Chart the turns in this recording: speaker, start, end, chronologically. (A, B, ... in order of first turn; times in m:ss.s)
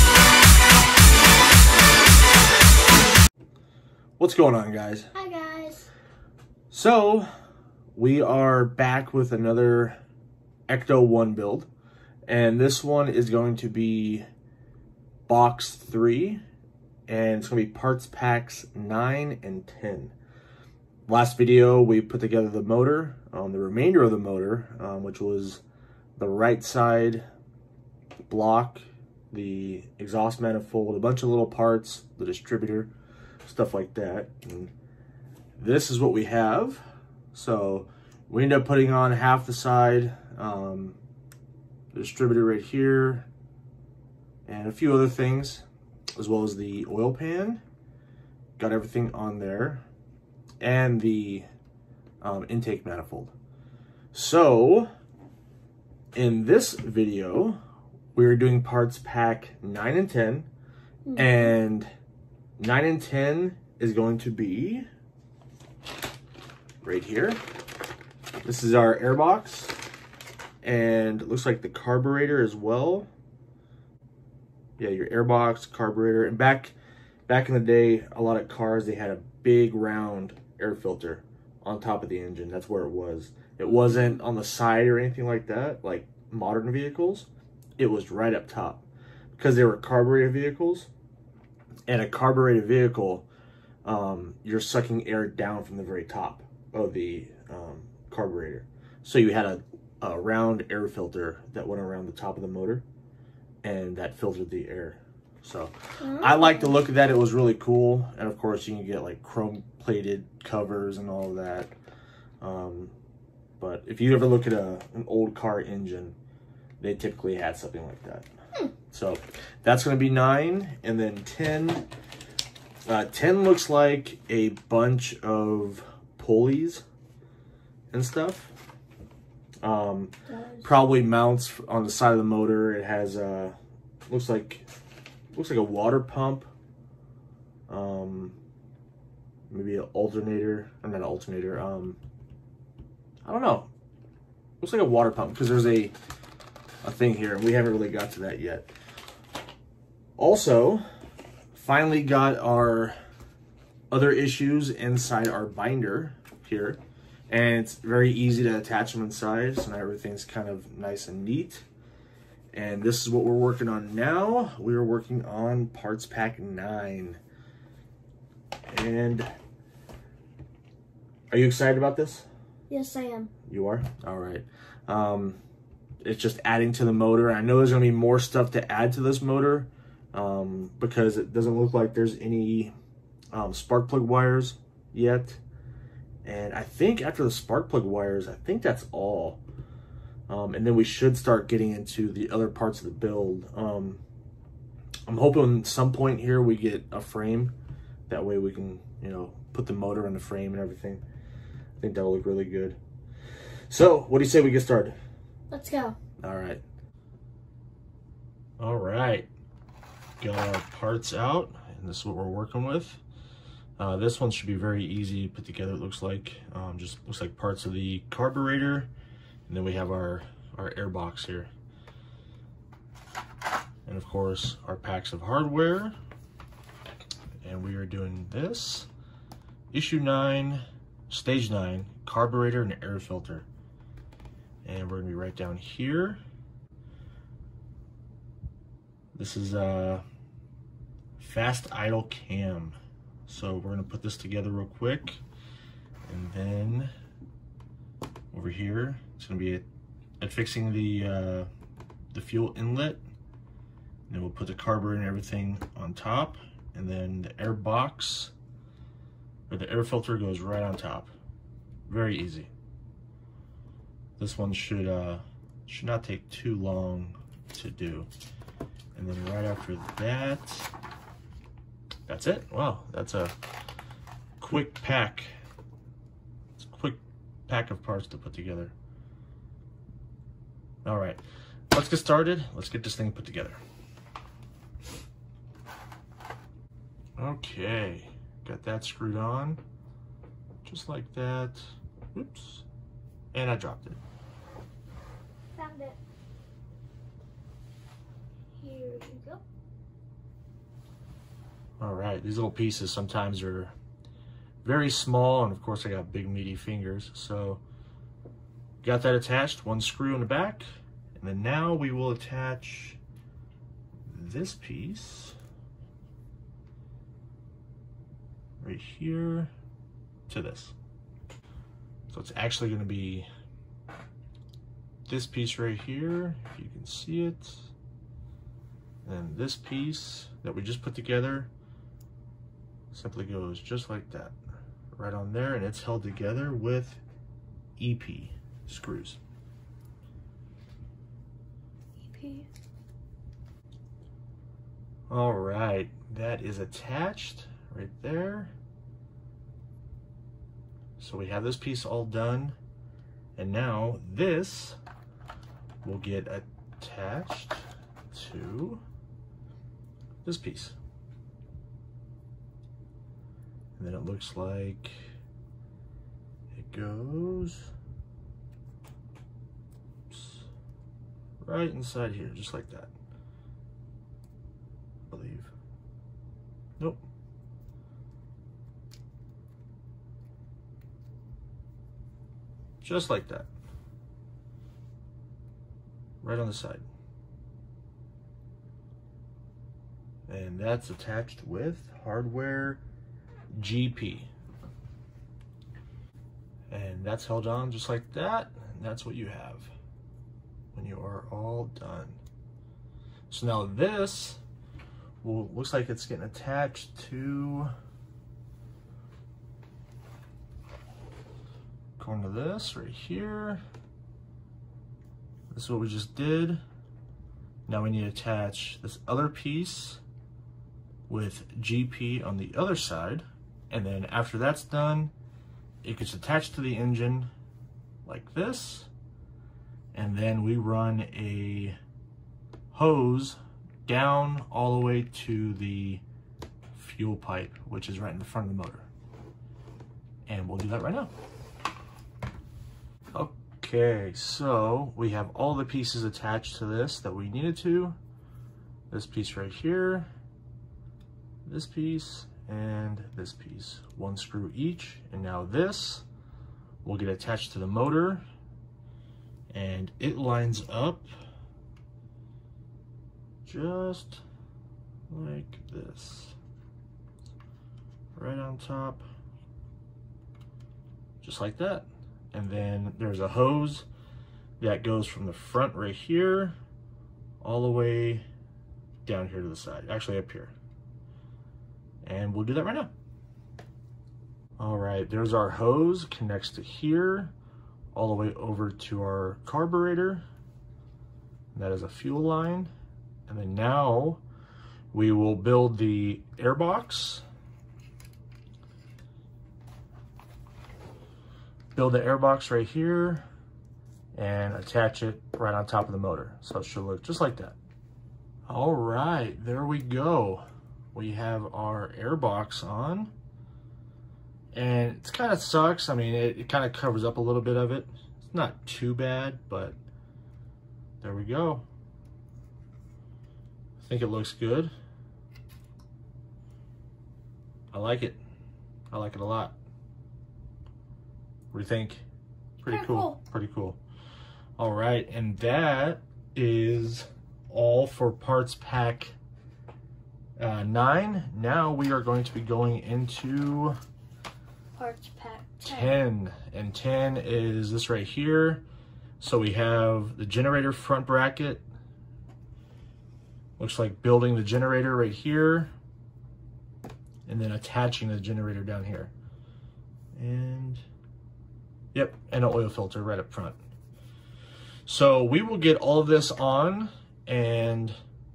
0:04.2-0:05.1 A
0:05.1-0:05.9 B
0:06.7-0:07.3 A
0:07.9-0:10.0 A
0:10.7-0:11.7 A
0:12.3-0:14.2 A
0:15.3-0:16.4 A
0:17.1-0:20.1 A
0:21.1-0:25.6 A
0:26.2-0:27.2 A
0:28.2-0:32.9 A
0:33.4-0:34.7 A
0:35.6-0:36.8 A
0:37.3-0:41.0 A
0:41.9-0:43.3 A
0:44.4-0:45.6 A
0:46.2-0:47.6 A
0:48.6-0:49.8 A
0:50.6-0:51.4 A
0:52.2-0:53.3 A
0:54.1-0:54.9 A
0:56.1-0:57.6 A
0:58.1-1:00.5 A
1:01.0-1:01.5 B
1:01.2-1:01.9 A
1:02.6-1:04.8 A
1:06.8-1:07.4 A
1:08.4-1:09.7 A
1:10.6-1:13.1 A
1:14.8-1:16.7 A
1:17.3-1:30.9 A
1:31.9-1:33.3 A
1:33.8-1:42.8 A
1:43.6-1:51.7 A
1:46.0-1:46.8 B
1:52.4-1:52.9 A
1:53.6-1:56.2 A
1:56.8-1:58.3 A
1:58.9-2:01.8 A
2:02.9-2:06.8 A
2:07.9-2:08.5 A
2:09.6-2:10.1 A
2:10.3-2:10.8 B
2:10.6-2:13.5 A
2:14.1-2:14.6 A
2:15.3-2:16.5 A
2:17.7-2:18.4 A
2:19.5-2:22.0 A
2:23.2-2:23.7 A
2:24.6-2:25.9 A
2:26.8-2:28.7 A
2:30.2-2:30.8 A
2:31.5-2:33.0 A
2:33.9-2:41.6 A
2:42.5-2:47.2 A
2:48.7-2:49.3 A
2:51.3-2:52.2 A
2:52.7-2:53.3 B
2:53.5-2:55.4 A
2:56.0-3:02.7 A
3:03.3-3:05.4 A
3:06.2-3:09.4 A
3:10.3-3:14.0 A
3:15.1-3:17.5 A
3:18.1-3:21.0 A
3:21.8-3:22.8 A
3:23.7-3:25.0 A
3:25.5-3:25.9 B
3:26.2-3:26.6 A
3:28.6-3:29.3 A
3:30.2-3:33.0 A
3:33.8-3:38.9 A
3:39.5-3:41.5 A
3:43.8-3:45.9 A
3:47.4-3:48.9 A
3:49.7-3:53.4 A
3:54.6-3:56.2 A
3:59.1-4:00.0 A
4:01.2-4:05.2 A
4:06.1-4:06.9 A
4:08.3-4:09.6 A
4:10.2-4:11.5 A
4:12.1-4:13.0 A
4:14.1-4:18.3 A
4:19.5-4:21.1 A
4:21.9-4:22.5 A
4:24.2-4:28.1 A
4:28.9-4:30.7 A
4:32.1-4:33.3 A
4:34.4-4:35.3 A
4:36.6-4:38.7 A
4:40.8-4:43.6 A
4:47.2-4:49.6 A
4:50.6-4:52.6 A
4:53.3-4:54.0 A
4:55.5-4:56.0 B
4:58.6-4:59.4 B
5:01.8-5:03.7 A
5:04.6-5:07.6 A
5:08.8-5:10.6 A
5:11.2-5:13.0 A
5:14.1-5:15.4 A
5:18.6-5:19.5 A
5:20.3-5:20.7 A
5:22.1-5:23.3 A
5:25.1-5:27.7 A
5:29.0-5:31.5 A
5:32.9-5:34.3 A
5:34.9-5:37.0 A
5:37.8-5:39.2 A
5:42.0-5:42.5 B
5:45.1-5:48.5 A
5:51.0-5:52.6 A
5:53.4-5:54.8 A
5:55.8-5:58.8 A
6:00.2-6:00.8 A
6:03.8-6:05.0 A
6:06.5-6:07.7 A
6:10.1-6:10.4 A
6:11.4-6:12.9 A
6:15.1-6:15.5 A
6:22.8-6:23.5 A
6:26.2-6:26.8 A
6:30.3-6:32.8 A
6:33.5-6:34.3 A
6:36.7-6:39.7 A
6:40.7-6:42.2 A
6:43.3-6:44.4 A
6:45.2-6:47.7 A
6:52.0-6:53.6 A
6:55.5-6:56.6 A
6:57.7-7:00.0 A
7:01.1-7:05.1 A
7:05.8-7:07.3 A
7:08.0-7:08.9 A
7:09.9-7:11.8 A
7:12.7-7:16.0 A
7:16.7-7:18.8 A
7:20.3-7:21.1 A
7:23.1-7:28.0 A
7:28.9-7:30.1 A
7:31.4-7:36.0 A
7:36.8-7:38.2 A
7:39.5-7:41.1 A
7:43.4-7:44.2 A
7:45.1-7:46.4 A
7:48.2-7:49.0 A
7:51.2-7:53.9 A
7:54.6-7:56.6 A
7:57.4-7:58.2 A
7:59.0-8:00.5 A
8:02.0-8:02.9 A
8:04.6-8:07.3 A
8:07.9-8:10.2 A
8:11.5-8:12.7 A
8:13.3-8:14.2 A
8:14.9-8:17.2 A
8:21.7-8:23.2 A
8:24.1-8:27.6 A
8:28.5-8:30.4 A
8:30.9-8:33.1 A
8:34.5-8:39.8 A
8:41.0-8:41.6 A
8:43.8-8:44.7 A
8:47.7-8:48.2 A
8:48.9-8:49.5 A
8:51.5-8:52.0 A
8:52.6-8:53.8 A
8:52.7-8:53.2 B
8:54.6-8:59.1 A
9:00.4-9:03.8 A
9:04.8-9:06.0 B
9:05.6-9:08.6 A
9:09.2-9:11.6 A
9:13.6-9:15.7 A
9:17.2-9:19.1 A
9:20.2-9:20.8 A
9:21.9-9:23.6 A
9:24.9-9:28.0 A